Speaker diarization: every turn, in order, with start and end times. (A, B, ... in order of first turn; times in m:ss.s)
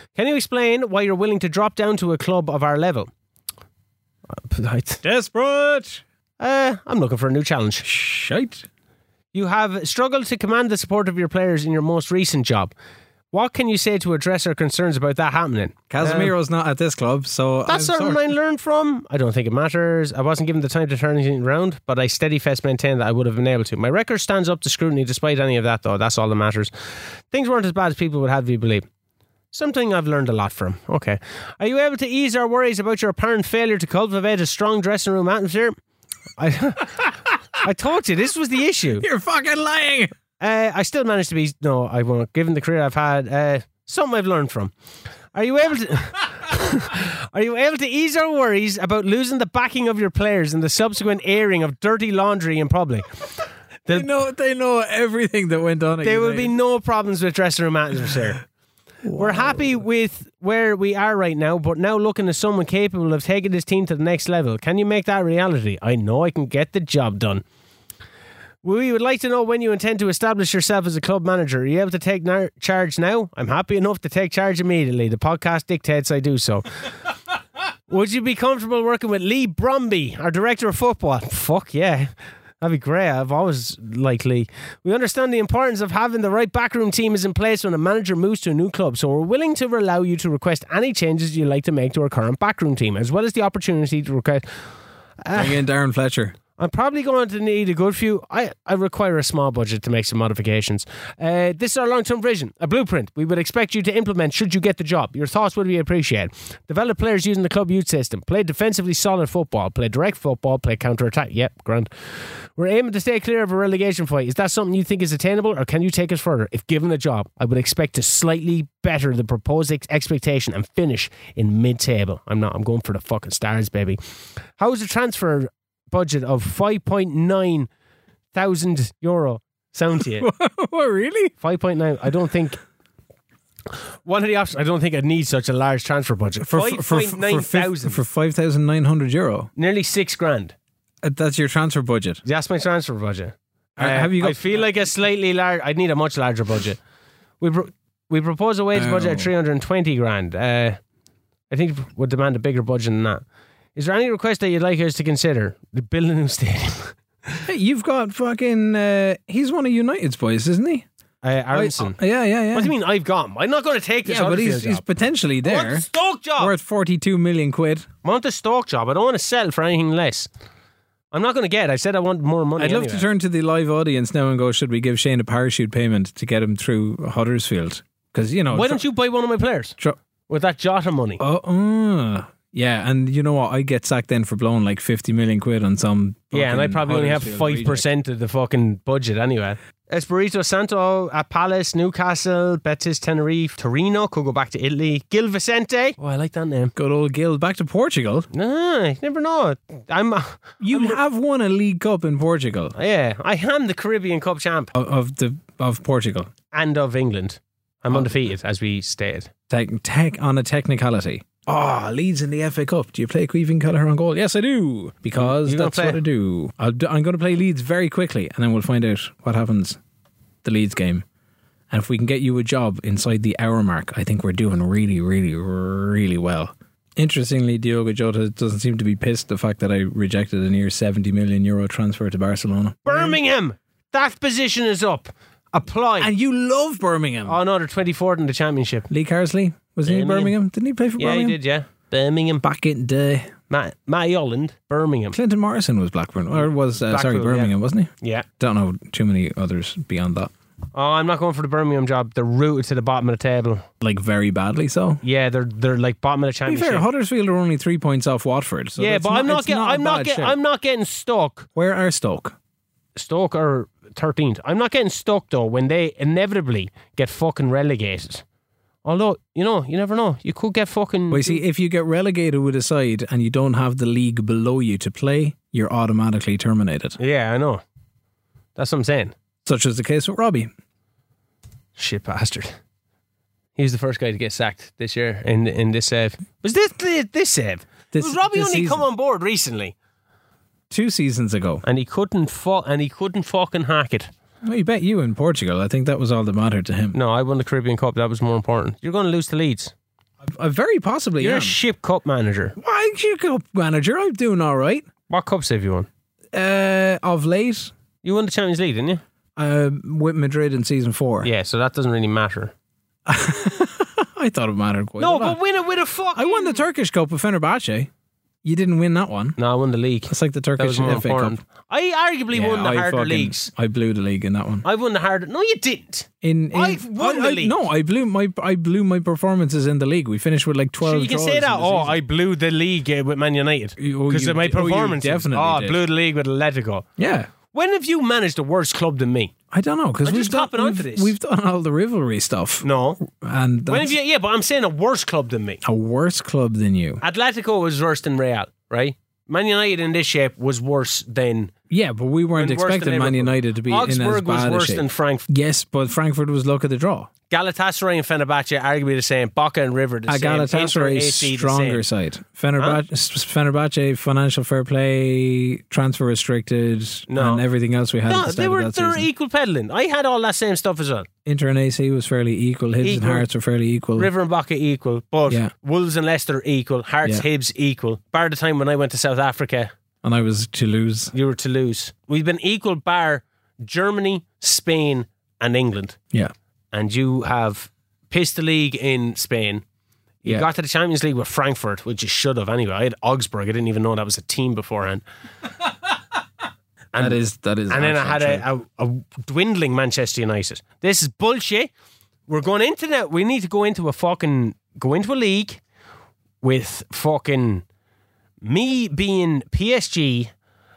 0:00.1-0:03.1 A
0:04.3-0:05.0 A
0:05.0-0:06.0 B
0:06.4-0:07.8 A
0:07.8-0:08.7 B
0:09.3-0:12.7 A
0:13.3-0:16.3 A
0:15.9-0:18.3 B
0:17.7-0:26.7 A
0:27.3-0:28.8 A
0:29.5-0:35.8 A
0:36.4-0:37.1 A
0:37.6-0:39.0 A
0:39.0-0:40.1 B
0:40.4-0:44.7 A
0:45.3-0:53.2 A
0:53.9-0:56.5 B
0:56.0-0:58.4 A
0:59.0-0:59.8 B
0:59.2-1:07.4 A
1:08.6-1:16.7 A
1:17.9-1:34.4 A
1:35.2-1:35.6 A
1:35.3-1:36.4 B
1:36.6-2:04.0 A
2:04.6-2:07.7 A
2:08.3-2:10.3 A
2:10.2-2:11.3 B
2:11.4-2:12.6 A
2:14.0-2:18.0 A
2:16.4-2:19.5 B
2:19.6-2:20.5 A
2:21.0-2:22.2 B
2:22.2-2:26.8 A
2:23.8-2:24.7 B
2:27.4-2:30.8 A
2:28.7-2:29.3 B
2:31.5-2:33.2 A
2:33.7-2:37.4 A
2:37.5-2:40.8 B
2:41.2-2:42.0 A
2:41.5-2:42.7 B
2:42.5-2:44.8 A
2:44.0-2:45.9 B
2:45.4-2:46.5 A
2:46.4-2:47.9 B
2:48.0-2:50.3 A
2:51.1-2:53.1 A
2:52.6-2:58.8 B
2:58.5-2:59.8 A
3:00.3-3:01.2 A
3:01.2-3:07.8 B
3:06.3-3:16.7 A
3:16.8-3:18.3 B
3:18.3-3:21.0 A
3:20.6-3:22.7 B
3:22.7-3:24.7 A
3:24.7-3:26.3 B
3:26.5-3:29.3 A
3:29.5-3:39.8 B
3:35.2-3:36.0 A
3:40.4-3:41.0 B
3:41.7-3:53.2 B
3:52.8-3:56.1 A
3:56.0-3:57.4 B
3:57.2-3:58.9 A
3:58.9-4:01.4 B
3:59.8-4:00.3 A
4:01.0-4:02.4 A
4:02.4-4:03.3 B
4:03.5-4:05.2 A
4:05.1-4:10.3 B
4:06.8-4:08.2 A
4:10.7-4:13.6 A
4:13.8-4:15.0 B
4:15.0-4:16.8 A
4:16.4-4:20.4 B
4:18.8-4:21.5 A
4:21.6-4:22.4 B
4:23.0-4:28.2 A
4:28.8-4:31.4 A
4:31.1-4:37.0 B
4:37.0-4:37.6 A
4:38.6-4:39.1 A
4:39.4-4:40.5 B
4:41.8-4:42.6 A
4:43.6-4:49.7 A
4:47.9-4:48.8 B
4:50.7-4:51.6 B
4:51.6-4:54.1 A
4:54.4-4:57.0 B
4:56.9-4:59.7 A
5:00.2-5:01.5 B
5:01.2-5:02.6 A
5:02.6-5:04.9 B
5:05.1-5:05.9 A
5:06.3-5:07.7 B
5:08.0-5:09.0 A
5:09.4-5:11.3 B
5:11.2-5:12.5 A
5:13.1-5:15.4 B
5:15.0-5:16.6 A
5:16.1-5:17.9 B
5:18.4-5:19.4 B
5:19.4-5:23.5 A
5:20.1-5:21.4 B
5:22.3-5:24.6 B
5:24.6-5:27.5 A
5:26.2-5:32.0 B
5:30.8-5:36.8 A
5:33.8-5:35.8 B
5:37.0-5:37.3 B
5:37.5-5:39.3 A
5:39.5-5:43.9 B
5:40.0-5:41.1 A
5:42.6-5:43.0 A
5:43.7-5:45.6 A
5:45.6-5:47.0 B
5:47.0-5:51.5 A
5:51.7-5:57.1 B
5:52.3-5:55.2 A
5:57.3-6:01.8 A
6:00.1-6:09.1 B
6:07.1-6:07.4 A
6:08.1-6:11.1 A
6:11.2-6:14.1 B
6:12.8-6:13.2 A
6:14.0-6:19.7 A
6:20.0-6:21.1 B
6:21.1-6:26.0 A
6:26.7-6:29.6 A
6:30.2-6:35.0 A
6:36.9-6:41.7 A
6:37.0-6:38.4 B
6:42.3-6:45.6 A
6:46.4-6:47.6 A
6:48.4-6:50.3 A